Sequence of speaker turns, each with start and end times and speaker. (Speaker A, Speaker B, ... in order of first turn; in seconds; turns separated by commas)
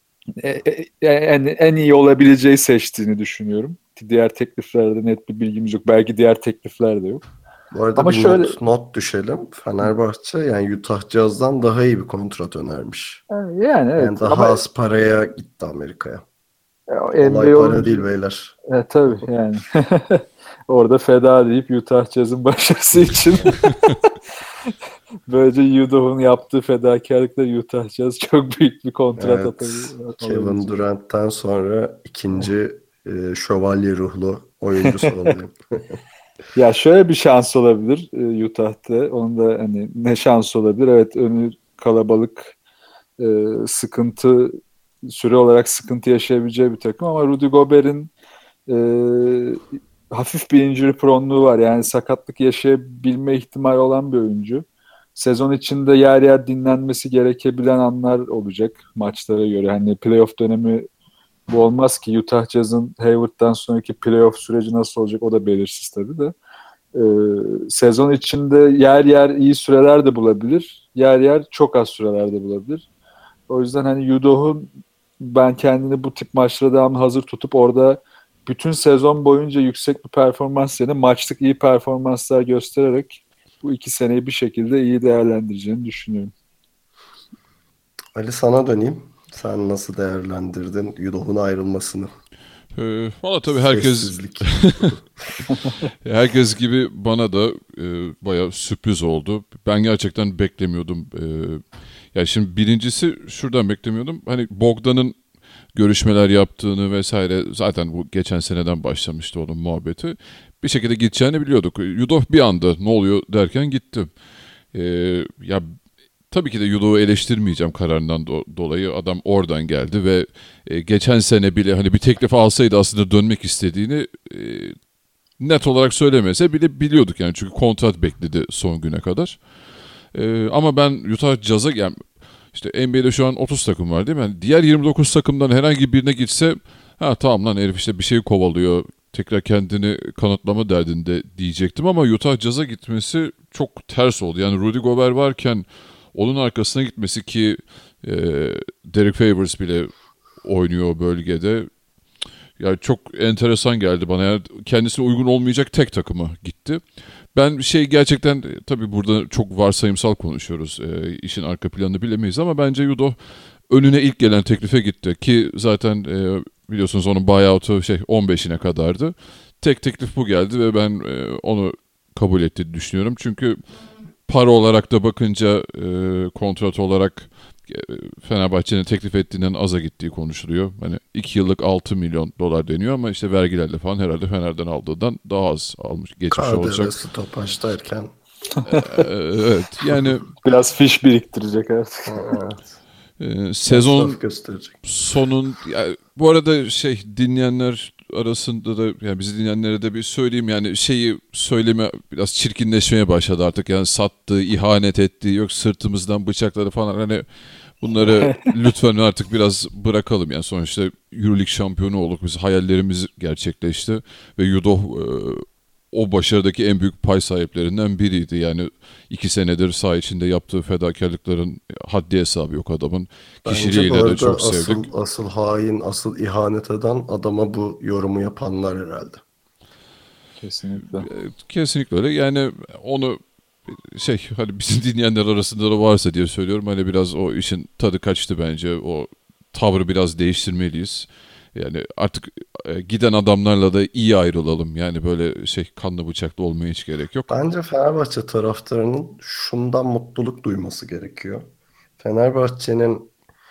Speaker A: 0.4-7.2, Speaker B: 7.7-13.2, Speaker A: 8.0-8.6, Speaker A: 13.3-14.6, Speaker B: 14.0-16.2, Speaker A: 16.9-18.0, Speaker B: 17.2-18.5, Speaker A: 18.7-24.1, Speaker A: 25.3-30.7, Speaker B: 29.2-36.0, Speaker A: 36.5-42.5, Speaker A: 43.2-48.1, Speaker A: 48.7-54.6, Speaker A: 55.1-60.9, Speaker A: 61.5-66.3, Speaker A: 66.9-72.9, Speaker A: 73.5-86.3, Speaker B: 88.2-92.1, Speaker C: 92.7-94.9, Speaker B: 93.5-95.0, Speaker C: 96.0-105.2, Speaker C: 105.7-114.1, Speaker C: 114.7-115.7, Speaker C: 116.3-124.8, Speaker C: 125.4-129.4, Speaker C: 130.1-151.7, Speaker C: 152.6-163.2, Speaker C: 163.7-173.6, Speaker C: 174.2-187.0, Speaker B: 186.3-188.1, Speaker C: 188.6-190.3, Speaker A: 190.4-192.3, Speaker B: 192.1-192.7, Speaker C: 193.2-194.2, Speaker B: 193.7-194.8, Speaker C: 194.8-207.2, Speaker C: 207.8-224.9, Speaker B: 223.4-229.2, Speaker A: 230.4-231.1, Speaker C: 231.0-247.3, Speaker B: 247.3-253.1